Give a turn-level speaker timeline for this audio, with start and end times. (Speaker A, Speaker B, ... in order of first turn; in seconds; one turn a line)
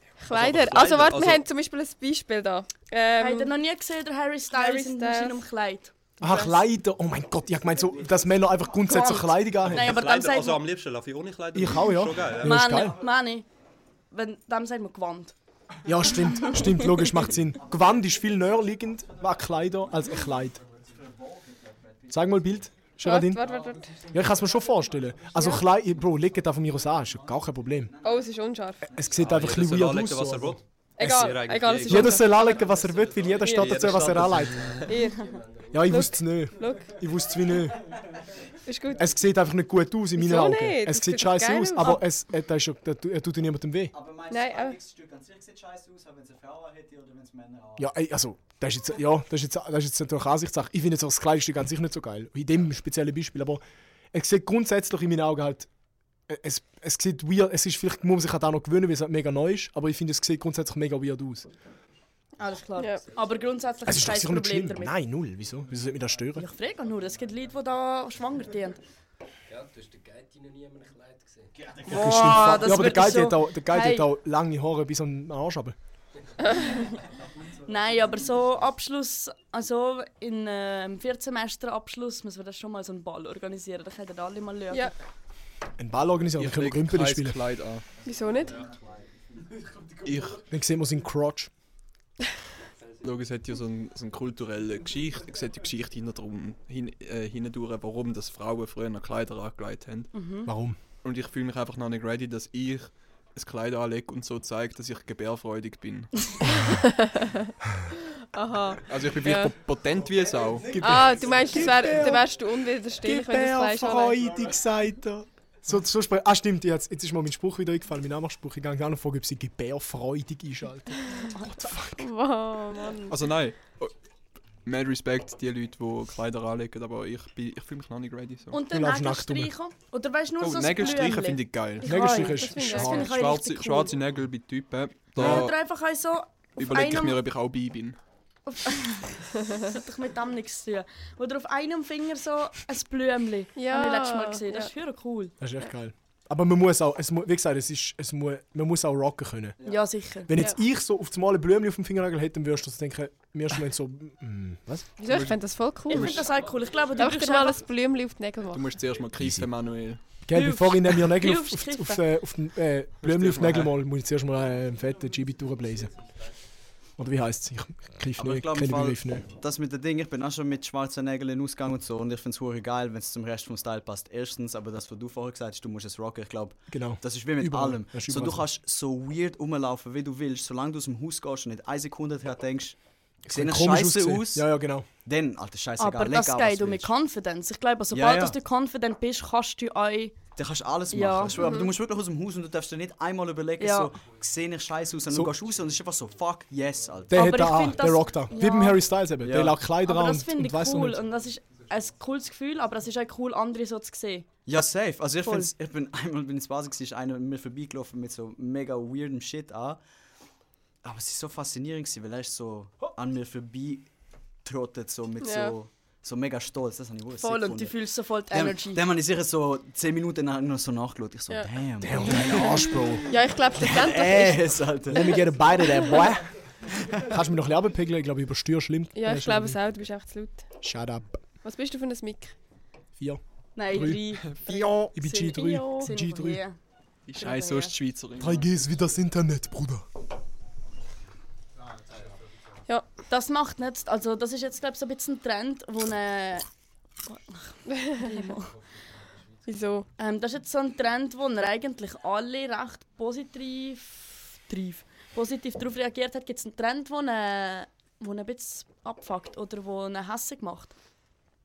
Speaker A: 0.2-3.5
Speaker B: 0.3-1.5
Speaker C: 3.2-5.9
Speaker A: 4.5-5.4
Speaker D: 6.2-10.0
Speaker C: 8.8-10.7
Speaker B: 9.6-12.9
Speaker D: 11.5-13.0
Speaker C: 12.4-13.5
Speaker C: 14.1-15.3
Speaker D: 15.8-20.6
Speaker C: 16.4-16.8
Speaker E: 17.6-18.5
Speaker E: 20.8-22.2
Speaker D: 22.1-23.5
Speaker A: 23.0-24.1
Speaker D: 24.1-27.9
Speaker A: 25.3-25.6
Speaker A: 28.0-28.8
Speaker E: 28.9-29.2
Speaker D: 28.9-31.1
Speaker B: 29.1-32.4
Speaker A: 31.0-32.8
Speaker D: 31.9-34.8
Speaker F: 32.4-34.5
Speaker A: 33.4-33.8
Speaker B: 33.5-34.9
Speaker A: 34.9-35.3
Speaker F: 35.1-36.0
Speaker D: 35.7-37.8
Speaker A: 35.9-37.0
Speaker A: 38.6-39.1
Speaker D: 38.9-43.9
Speaker A: 40.1-42.0
Speaker E: 43.9-47.9
Speaker A: 44.3-44.8
Speaker D: 47.8-53.6
Speaker D: 54.1-55.7
Speaker D: 56.3-61.5
Speaker C: 62.4-64.9
Speaker A: 62.8-63.0
Speaker F: 63.2-63.4
Speaker D: 63.8-66.5
Speaker C: 66.3-68.8
Speaker F: 69.5-71.7
Speaker D: 71.8-75.8
Speaker C: 71.8-74.1
Speaker C: 77.6-84.9
Speaker D: 85.8-87.4
Speaker G: 86.4-87.9
Speaker A: 88.0-88.7
Speaker E: 88.5-89.0
Speaker G: 90.0-90.4
Speaker D: 90.4-91.5
Speaker G: 93.0-100.3
Speaker C: 100.1-100.5
Speaker D: 100.5-100.8
Speaker G: 101.0-106.3
Speaker A: 106.6-107.4
Speaker A: 108.3-109.5
Speaker G: 108.8-110.8
Speaker D: 110.7-112.4
Speaker A: 110.8-114.3
Speaker D: 113.0-122.1
Speaker A: 122.0-123.2
Speaker G: 123.1-123.9
Speaker G: 124.6-128.6
Speaker C: 128.5-133.9
Speaker D: 128.7-129.5
Speaker G: 130.4-132.1
Speaker D: 131.8-133.1
Speaker A: 132.4-133.0
Speaker G: 132.8-135.6
Speaker C: 135.2-137.2
Speaker G: 136.6-138.0
Speaker C: 138.5-145.3
Speaker A: 143.6-144.7
Speaker D: 145.4-149.6
Speaker C: 149.6-150.3
Speaker D: 150.1-154.9
Speaker A: 155.0-156.3
Speaker G: 155.1-156.3
Speaker C: 155.9-157.6
Speaker A: 156.9-158.6
Speaker G: 158.5-160.0
Speaker D: 159.2-159.5
Speaker D: 160.1-165.9
Speaker C: 160.3-162.0
Speaker G: 163.0-163.7
Speaker D: 167.0-169.2
Speaker E: 168.2-186.9
Speaker D: 176.7-178.4
Speaker D: 183.2-184.9
Speaker C: 185.8-190.2
Speaker E: 187.9-188.3
Speaker E: 190.3-197.6
Speaker C: 190.9-191.6
Speaker A: 191.4-191.7
Speaker C: 193.6-193.9
Speaker D: 197.1-201.0
Speaker C: 197.1-198.8
Speaker E: 199.2-199.6
Speaker C: 199.8-204.3
Speaker E: 204.4-209.8
Speaker C: 205.2-205.5
Speaker E: 210.8-213.9
Speaker E: 214.4-222.9
Speaker A: 215.2-215.5
Speaker C: 217.2-218.8
Speaker D: 221.8-223.2
Speaker A: 222.0-225.1
Speaker E: 223.5-225.2
Speaker D: 224.9-226.3
Speaker D: 226.9-229.6
Speaker A: 228.9-230.5
Speaker D: 230.6-231.2
Speaker A: 231.4-232.3
Speaker D: 233.0-234.2
Speaker C: 233.6-236.6
Speaker G: 234.3-234.6
Speaker D: 234.9-236.4
Speaker A: 235.5-235.9
Speaker G: 237.1-238.5
Speaker C: 237.2-237.7
Speaker D: 238.2-239.8
Speaker C: 243.1-246.4
Speaker C: 247.1-248.5
Speaker A: 249.4-249.9
Speaker C: 250.0-260.8